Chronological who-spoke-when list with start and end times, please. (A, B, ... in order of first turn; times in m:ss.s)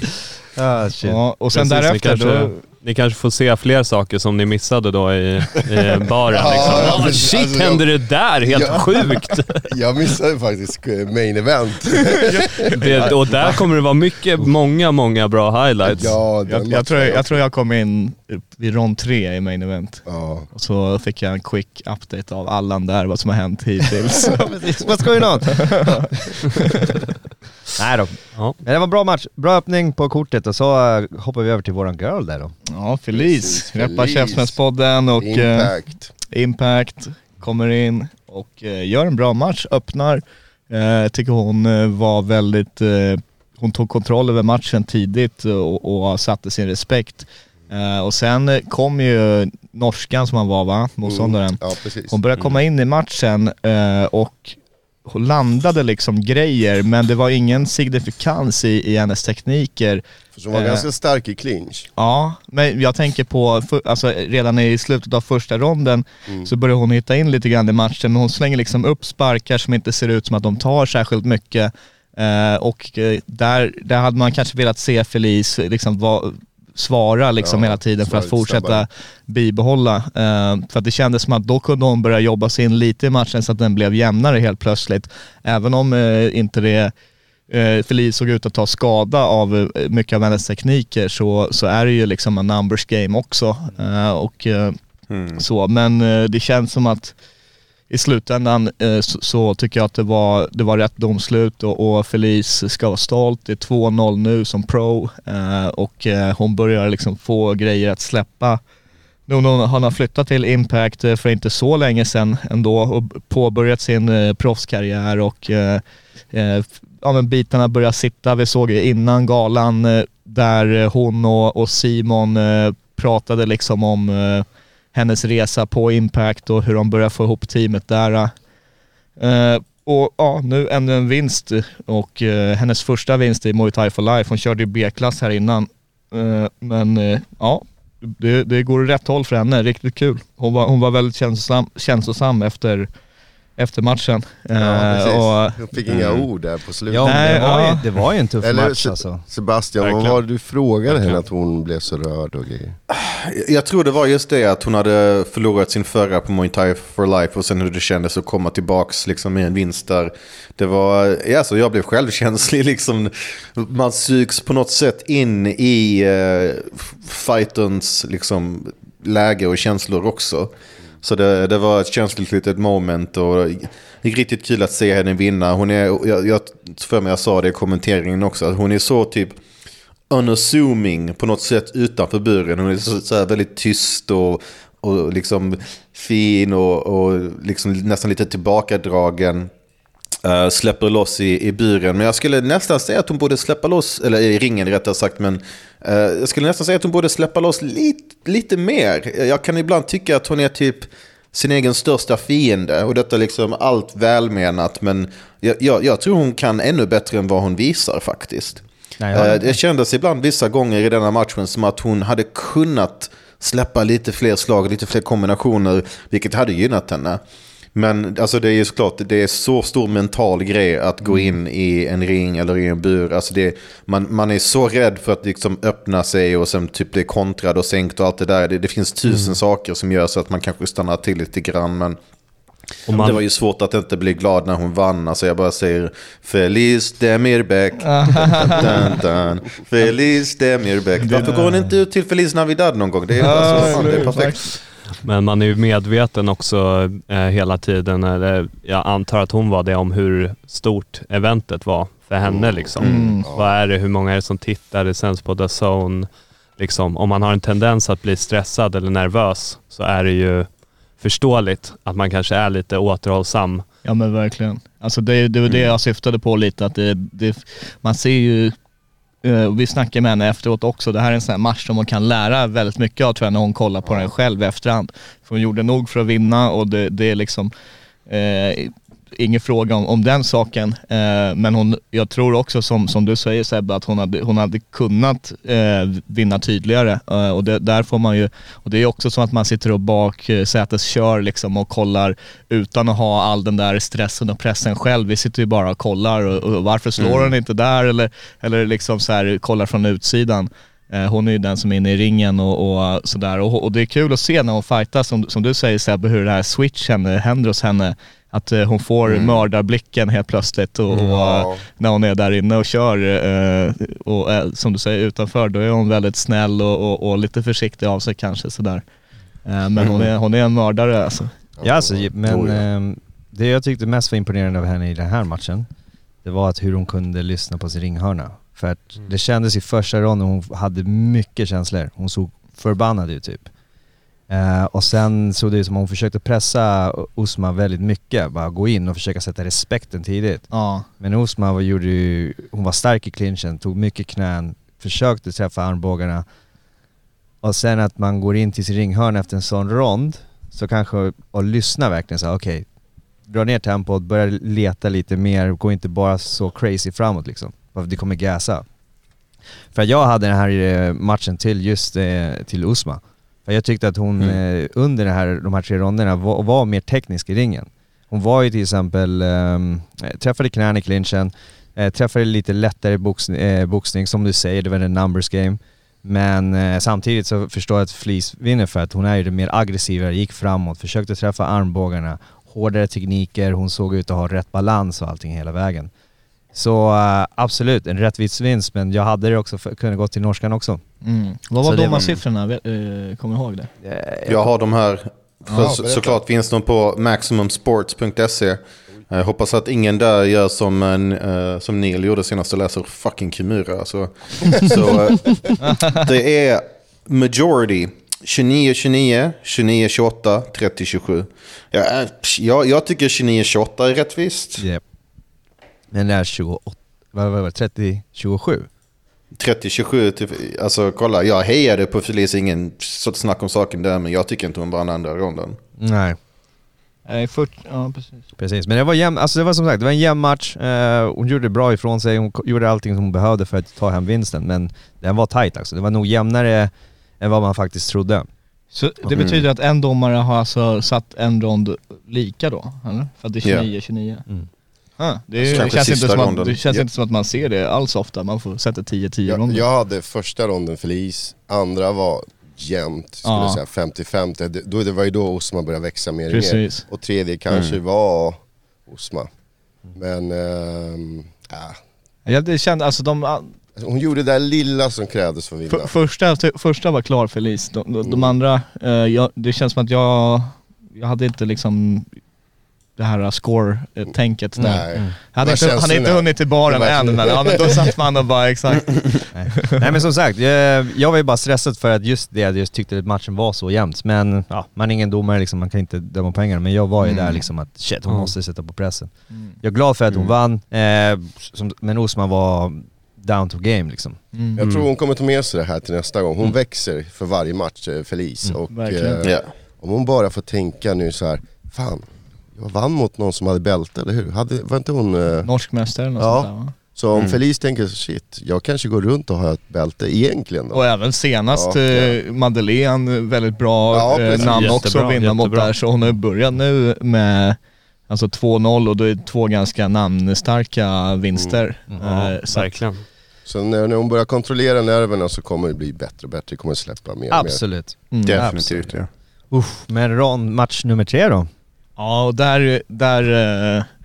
0:00.6-0:01.2 A
0:01.0-0:02.6 B
0:01.5-0:09.7 C
0:06.3-0:07.9 D
0:08.4-0:12.5 D
0:12.1-0:13.6 B
0:12.7-0:16.1 C
0:15.9-0:17.3 D
0:16.5-0:24.4 B
0:20.0-0:20.5 D
0:24.3-0:26.4 A
0:25.6-0:26.9 B
0:27.8-0:32.5 A
0:32.7-0:35.7 B
0:33.1-0:34.6 D
0:35.2-0:36.1 D
0:36.2-1:00.0 B
0:51.0-0:52.1 D
1:00.4-1:01.9 D
1:00.5-1:00.9 B
1:02.0-1:26.9 B
1:17.4-1:18.8 D
1:27.5-1:34.8 B
1:35.1-1:35.4 E
1:35.4-1:37.1 B
1:37.9-1:48.6 B
1:49.3-2:08.3 B
2:09.2-2:22.9 B
2:23.6-2:25.6 B
2:24.5-2:27.5 D
2:25.9-2:26.3 E
2:26.9-2:29.2 A
2:27.0-2:27.8 B
2:28.4-2:32.8 D
2:29.8-2:30.2 C
2:32.9-2:59.4 E
3:00.1-3:09.5 E
3:10.2-3:37.2 E
3:29.0-3:29.6 A
3:37.7-3:52.0 E
3:52.9-4:04.6 E
3:52.9-3:53.2 C
3:57.8-3:58.8 B
4:01.0-4:01.7 B
4:03.2-4:04.4 B
4:05.0-4:23.6 C
4:12.2-4:13.5 D
4:12.8-4:13.1 E
4:12.8-4:13.2 B
4:23.8-4:28.6 B
4:29.2-4:37.5 B
4:38.1-5:18.8 B
4:57.0-4:57.3 E
5:09.1-5:09.4 E
5:10.9-5:11.6 D
5:19.4-5:21.3 B
5:21.6-5:22.6 D
5:21.6-5:25.7 A
5:26.2-5:33.5 A
5:34.3-5:40.5 A
5:40.5-5:40.9 B
5:41.0-5:46.2 A
5:47.4-5:52.6 A
5:53.3-5:58.6 A
5:59.7-6:25.9 A
6:26.5-6:30.8 A
6:31.0-6:33.7 B
6:31.6-6:32.1 A
6:33.8-6:34.5 A
6:34.2-6:54.6 E
6:35.4-6:35.8 B
6:35.6-6:36.2 D
6:45.6-6:46.1 B
6:55.9-6:58.7 A
6:59.4-7:05.6 E
7:05.8-7:06.2 A
7:07.1-7:08.2 B
7:08.4-7:18.3 A
7:18.7-7:24.2 B
7:19.1-7:19.4 E
7:25.0-7:29.6 B
7:25.4-7:25.8 D
7:25.5-7:26.8 E
7:29.3-7:39.3 D
7:33.2-7:33.6 B
7:36.3-7:36.9 B
7:37.5-7:37.8 E
7:39.9-7:41.8 D
7:42.2-7:43.5 B
7:43.8-7:45.9 D
7:45.7-7:52.1 B
7:48.0-7:48.3 D
7:53.0-7:59.7 B
7:54.6-7:55.2 A
7:54.6-7:57.8 D
7:59.3-8:14.2 A
8:07.0-8:07.4 B
8:14.3-8:14.6 B
8:14.6-8:25.5 D
8:14.6-8:14.9 C
8:18.7-8:19.2 B
8:19.2-8:19.5 E
8:25.4-8:26.7 B
8:26.2-8:30.8 D
8:27.1-8:27.4 E
8:30.7-8:37.6 B
8:31.5-8:32.1 D
8:33.9-8:34.8 D
8:34.4-8:35.7 C
8:38.1-8:42.7 B
8:41.9-8:42.4 A
8:42.5-8:43.0 C
8:43.4-8:47.6 D
8:47.3-8:49.0 A
8:48.1-8:48.4 B
8:48.2-8:49.1 E
8:49.5-8:51.5 A
8:52.0-8:53.9 B